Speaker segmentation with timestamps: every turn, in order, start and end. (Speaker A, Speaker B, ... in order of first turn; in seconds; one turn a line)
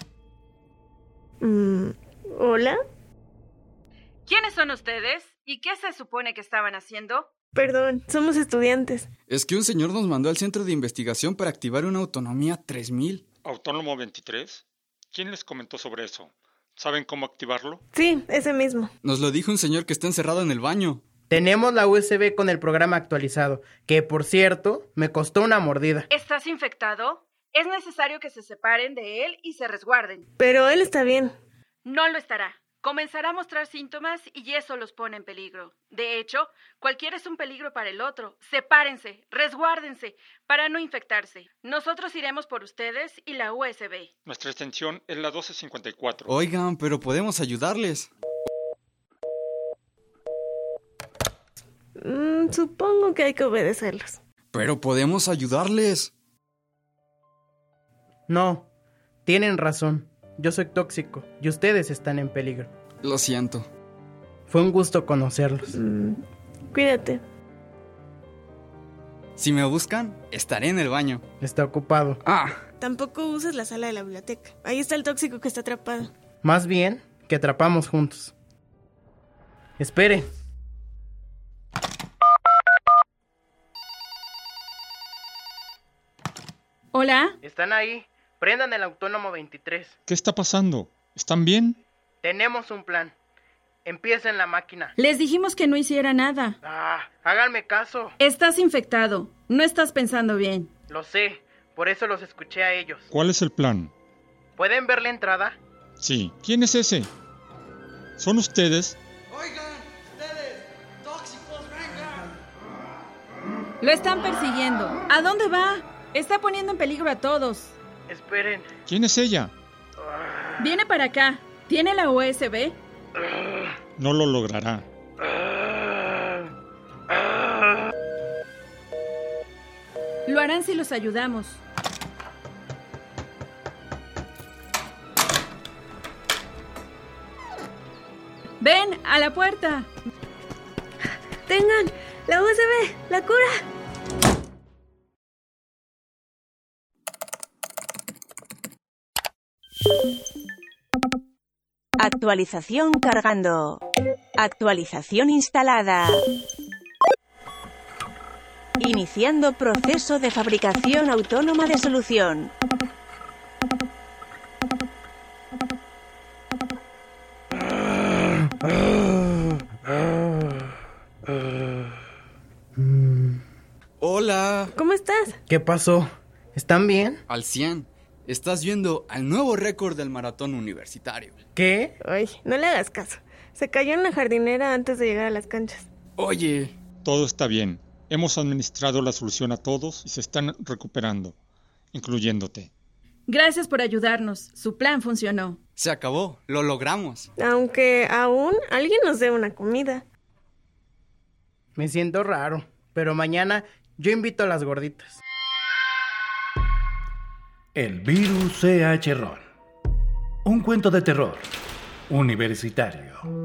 Speaker A: 1.4-2.8
Speaker B: 4.2-7.3
Speaker A: 7.5-9.1
Speaker C: 9.3-13.2
Speaker D: 13.4-17.8
Speaker A: 17.9-18.9
Speaker C: 19.0-21.0
Speaker E: 21.3-26.1
Speaker B: 26.1-30.2
Speaker A: 30.4-31.3
Speaker B: 31.8-44.1
Speaker D: 44.2-46.3
Speaker C: 46.3-48.1
Speaker A: 52.0-54.2
Speaker C: 54.5-56.1
Speaker E: 58.3-58.7
Speaker E: 59.2-62.7
Speaker C: 63.0-63.7
Speaker E: 64.5-65.7
Speaker A: 65.7-66.2
Speaker A: 66.7-67.2
Speaker C: 69.4-71.2
Speaker E: 71.4-72.2
Speaker C: 72.2-72.6
Speaker A: 72.8-76.1
Speaker E: 76.4-78.3
Speaker E: 79.8-80.3
Speaker B: 86.9-87.4
Speaker E: 87.4-89.9
Speaker D: 90.1-91.8
Speaker E: 92.2-93.1
Speaker E: 93.8-94.9
Speaker B: 95.0-96.6
Speaker E: 96.6-98.1
Speaker B: 98.2-100.7
Speaker E: 100.9-103.1
Speaker D: 103.1-103.9
Speaker E: 104.6-105.6
Speaker D: 106.0-107.1
Speaker D: 108.2-109.0
Speaker C: 111.2-111.7
Speaker B: 113.8-117.7
Speaker E: 118.1-118.7
Speaker D: 118.9-119.5
Speaker B: 120.6-122.8
Speaker D: 124.0-124.8
Speaker B: 130.2-131.6
Speaker B: 138.6-139.9
Speaker A: 141.5-143.6
Speaker F: 152.0-153.8
Speaker F: 154.4-156.2
Speaker F: 158.8-162.5
Speaker E: 172.8-173.4
Speaker C: 174.0-174.7
Speaker A: 174.7-175.4
Speaker E: 175.5-177.2
Speaker C: 177.3-181.3
Speaker E: 181.6-181.9
Speaker A: 182.0-185.9
Speaker C: 186.2-186.7
Speaker D: 187.0-191.3
Speaker D: 191.9-192.7
Speaker B: 193.3-195.6
Speaker C: 195.8-197.3
Speaker A: 197.4-200.0
Speaker E: 201.8-205.2
Speaker G: 207.7-209.4
Speaker G: 210.4-211.5
Speaker G: 212.1-213.3